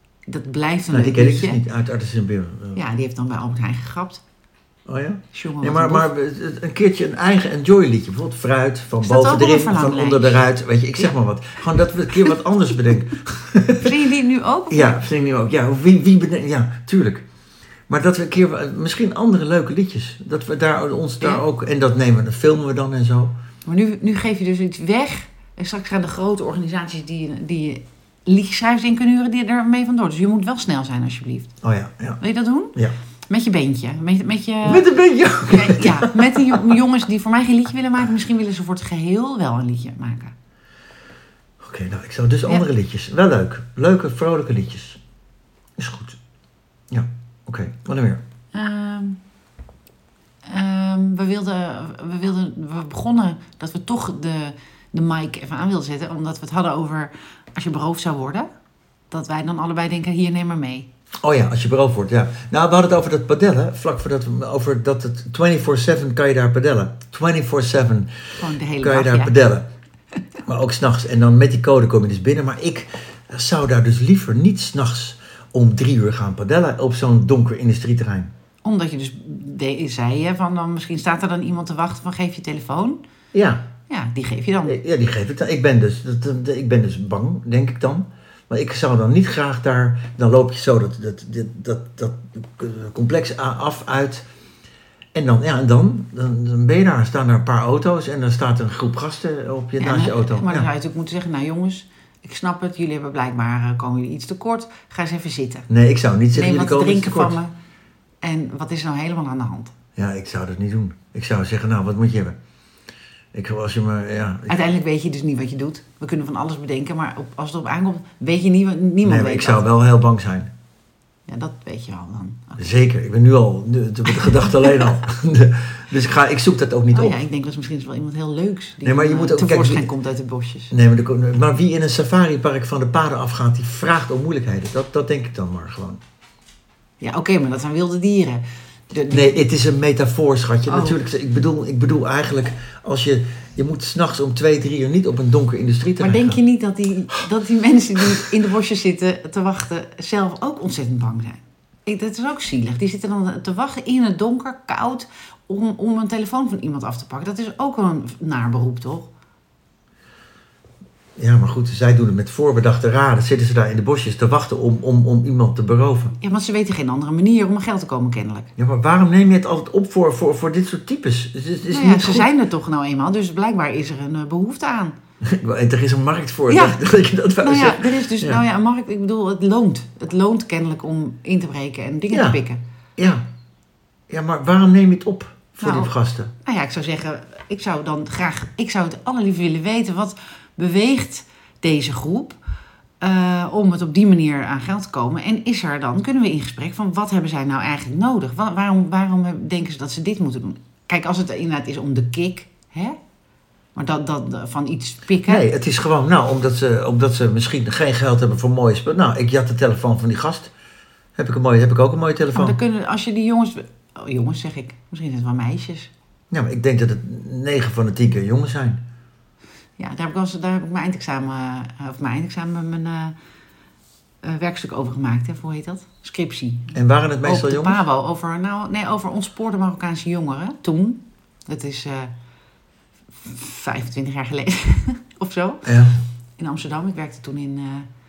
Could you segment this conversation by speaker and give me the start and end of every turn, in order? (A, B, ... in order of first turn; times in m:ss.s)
0:00.3-0:01.6 A
0:00.9-0:02.8 B
0:02.8-0:04.2 A
0:04.9-0:14.0 B
0:05.3-0:06.1 A
0:09.0-0:10.4 A
0:13.8-0:15.0 A
0:14.7-0:17.3 B
0:17.9-0:23.3 B
0:23.6-0:31.5 A
0:31.6-0:32.2 B
0:32.2-0:32.8 A
0:33.3-0:40.3 A
0:34.6-0:36.8 B
0:41.6-0:45.0 B
0:45.8-0:46.2 B
0:46.9-0:48.2 B
0:48.5-0:49.2 A
0:50.4-0:58.5 A
0:59.1-1:00.9 A
1:01.2-1:09.7 B
1:08.4-1:09.3 A
1:10.4-1:18.3 B
1:18.6-1:23.0 A
1:23.3-1:23.6 B
1:23.9-1:24.8 A
1:24.6-1:34.2 B
1:35.1-1:40.7 B
1:39.8-1:45.7 A
1:45.7-1:47.4 B
1:46.3-1:47.5 A
1:48.2-1:49.8 A
1:50.0-1:52.4 B
1:53.3-1:54.6 B
1:54.5-1:59.7 A
1:59.0-2:00.5 B
2:01.3-2:02.7 A
2:02.6-2:07.2 B
2:04.1-2:05.0 A
2:06.9-2:10.7 A
2:08.8-2:09.9 B
2:10.7-2:16.0 B
2:17.0-2:19.4 A
2:19.1-2:26.4 B
2:20.7-2:21.0 A
2:26.0-2:39.1 A
2:41.2-2:46.2 B
2:46.2-2:48.5 A
2:48.6-2:52.3 B
2:51.7-2:55.0 A
2:55.2-2:58.4 B
2:56.5-2:56.8 A
2:57.4-3:02.6 A
3:02.1-3:02.4 B
3:03.0-3:03.2 B
3:04.1-3:06.3 B
3:05.6-3:12.4 A
3:13.0-3:23.0 A
3:23.8-3:25.4 A
3:25.3-3:30.5 B
3:31.2-3:32.6 B
3:32.3-3:35.9 A
3:36.3-3:38.8 B
3:39.8-3:43.2 A
3:44.2-3:52.1 A
3:46.7-3:47.8 B
3:53.2-3:55.8 A
3:55.6-3:56.0 B
3:56.4-3:57.9 A